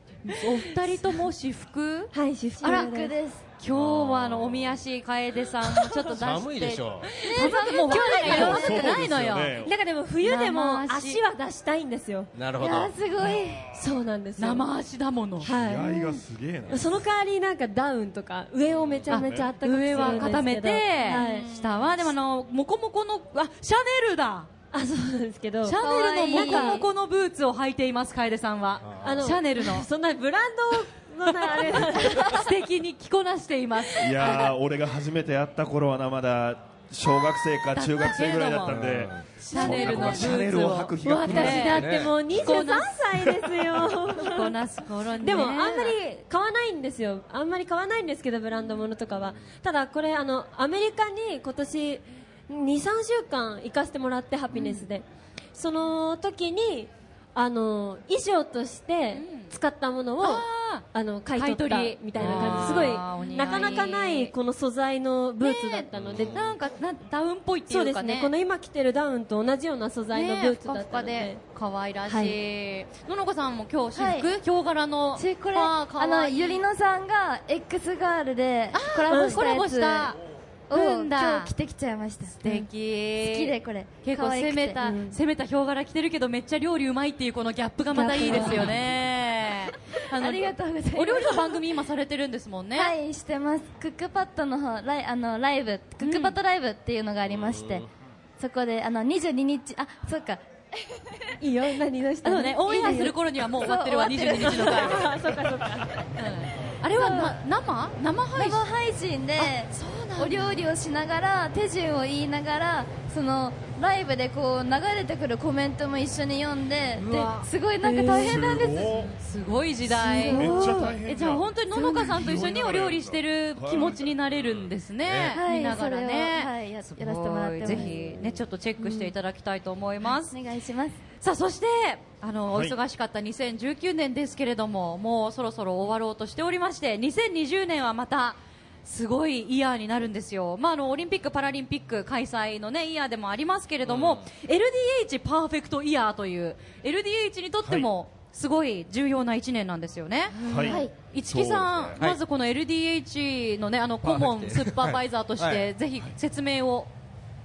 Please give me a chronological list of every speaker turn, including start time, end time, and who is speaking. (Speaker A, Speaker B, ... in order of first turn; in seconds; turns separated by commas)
Speaker A: 0.2-2.9, Speaker B: 0.4-0.7, Speaker B: 2.1-3.1, Speaker C: 2.6-3.5, Speaker A: 3.6-9.6, Speaker D: 3.7-4.8, Speaker B: 5.6-6.1, Speaker D: 6.1-7.1, Speaker B: 7.1-8.7, Speaker C: 7.2-9.0, Speaker E: 8.2-9.7, Speaker B: 9.6-12.3, Speaker A: 10.2-11.2, Speaker D: 12.3-12.9, Speaker C: 12.6-13.7, Speaker B: 13.7-14.7, Speaker A: 14.4-15.5, Speaker B: 15.4-16.1, Speaker E: 15.6-17.0, Speaker B: 16.7-21.5, Speaker D: 18.7-19.1, Speaker E: 19.1-20.2, Speaker A: 19.1-24.5, Speaker C: 21.1-22.1, Speaker B: 24.7-26.9, Speaker A: 25.6-29.9, Speaker C: 25.8-26.9, Speaker D: 28.8-29.4, Speaker B: 29.0-32.5, Speaker A: 31.3-34.5, Speaker E: 34.0-41.9, Speaker A: 37.7-38.8, Speaker D: 38.7-39.3, Speaker A: 39.4-42.9, Speaker B: 39.5-40.1, Speaker D: 39.9-40.3, Speaker B: 41.0-44.5, Speaker D: 41.5-42.6, Speaker A: 44.2-46.0, Speaker B: 45.2-66.4, Speaker A: 54.5-54.9, Speaker A: 59.1-59.5, Speaker A: 60.2-64.3, Speaker D: 62.2-63.0, Speaker A: 65.4-68.3, Speaker D: 66.0-66.5, Speaker B: 67.7-71.4, Speaker A: 70.1-76.7, Speaker B: 72.1-72.4, Speaker C: 74.0-74.3, Speaker C: 75.2-80.2, Speaker A: 78.7-80.2, Speaker B: 79.1-79.5, Speaker C: 80.7-82.4, Speaker A: 80.7-81.5, Speaker A: 82.4-92.9, Speaker C: 83.2-84.8, Speaker B: 84.8-85.2, Speaker C: 87.9-88.8, Speaker B: 88.1-88.8, Speaker C: 90.1-91.6, Speaker C: 92.8-97.8, Speaker A: 96.0-96.4, Speaker D: 97.2-97.9, Speaker C: 98.4-101.1, Speaker B: 101.4-103.2, Speaker A: 102.2-105.1, Speaker C: 103.5-105.1, Speaker B: 104.4-106.1, Speaker A: 106.2-108.6, Speaker C: 106.9-107.4, Speaker C: 108.4-119.0, Speaker A: 109.4-110.7, Speaker A: 117.0-130.4, Speaker B: 117.8-118.3, Speaker E: 118.1-119.1, Speaker C: 119.9-120.9, Speaker B: 120.2-120.9, Speaker E: 120.2-124.2, Speaker D: 125.0-125.4, Speaker C: 125.3-128.0, Speaker E: 127.7-128.1, Speaker C: 130.1-131.0, Speaker A: 131.2-156.9, Speaker E: 132.5-132.8, Speaker D: 143.8-144.3, Speaker E: 150.5-152.0, Speaker C: 150.6-150.9, Speaker D: 154.0-155.7